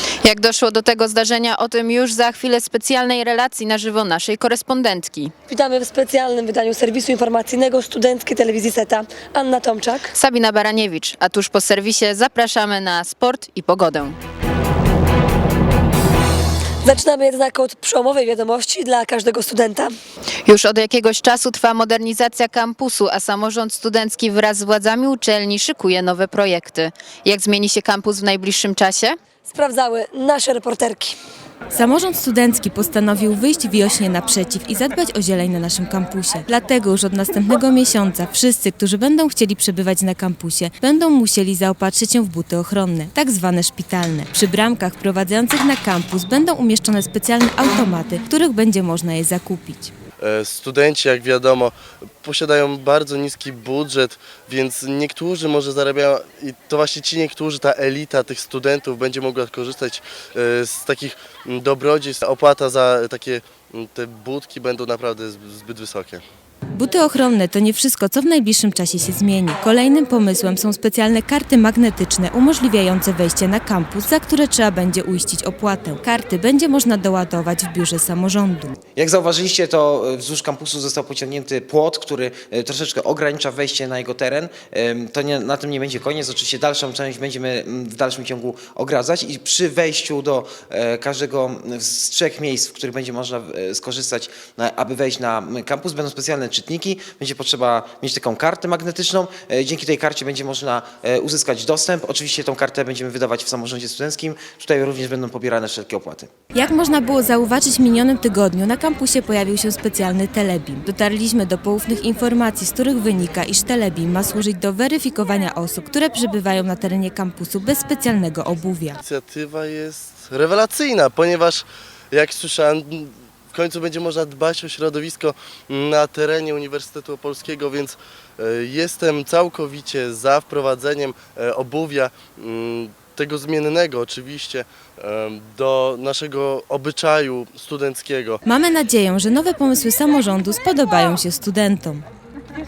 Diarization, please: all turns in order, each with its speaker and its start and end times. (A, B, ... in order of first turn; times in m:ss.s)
0:00.2-0:05.3 A
0:05.5-0:10.1 B
0:10.1-0:14.2 A
0:16.8-0:19.9 B
0:20.4-0:29.2 A
0:29.5-0:31.1 B
0:31.7-0:49.9 C
0:50.2-1:06.2 D
1:06.7-1:18.7 C
1:19.0-1:46.3 E
1:46.5-1:59.0 C
1:59.1-2:18.4 D
2:18.4-2:22.0 C